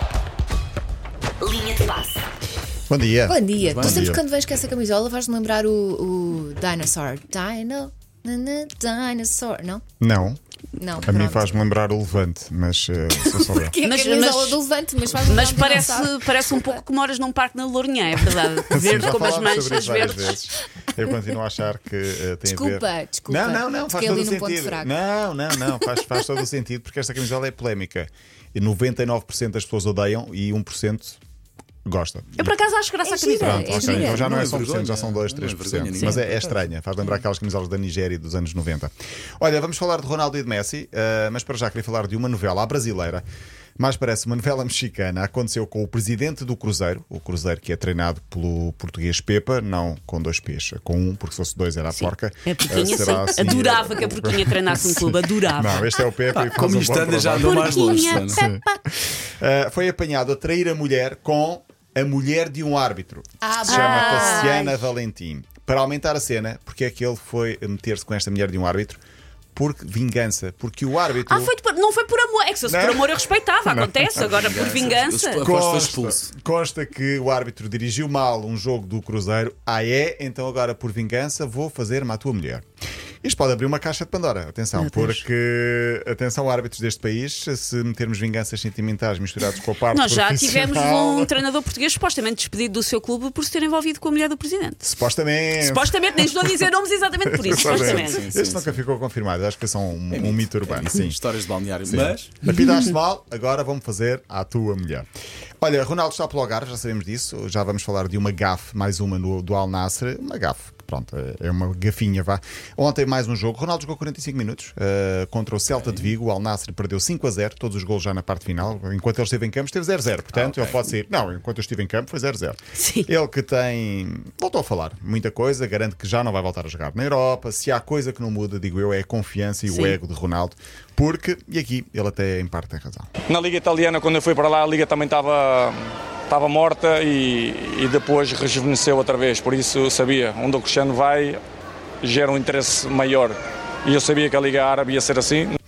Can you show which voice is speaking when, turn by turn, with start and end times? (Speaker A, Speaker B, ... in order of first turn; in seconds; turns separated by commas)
Speaker A: 2.9-4.2, Speaker B: 3.3-9.8, Speaker C: 3.6-4.2, Speaker A: 10.0-10.4, Speaker B: 10.8-11.4, Speaker A: 11.0-13.8, Speaker B: 13.2-16.8, Speaker D: 13.8-14.6, Speaker D: 15.2-20.4, Speaker A: 18.3-31.2, Speaker B: 22.5-24.9, Speaker A: 31.9-32.5, Speaker D: 32.4-34.2, Speaker B: 33.1-34.2, Speaker A: 33.4-43.2, Speaker C: 33.8-36.7, Speaker A: 43.8-69.0, Speaker D: 51.9-56.0, Speaker C: 56.3-58.4, Speaker D: 57.4-58.5, Speaker B: 63.4-64.5, Speaker D: 63.6-64.9, Speaker A: 69.5-71.5, Speaker D: 71.2-75.4, Speaker A: 72.7-74.2, Speaker C: 74.2-76.3, Speaker A: 75.4-82.6, Speaker A: 83.2-91.3, Speaker D: 84.8-85.2, Speaker D: 89.9-94.8, Speaker A: 94.8-96.7, Speaker D: 95.6-98.2, Speaker A: 97.3-101.2, Speaker C: 97.5-98.8, Speaker C: 100.1-102.3, Speaker A: 101.8-105.1, Speaker A: 105.6-133.1, Speaker C: 115.7-116.1, Speaker C: 120.3-120.8, Speaker D: 122.8-123.1, Speaker D: 129.7-130.0, Speaker E: 133.3-141.4, Speaker E: 142.0-145.6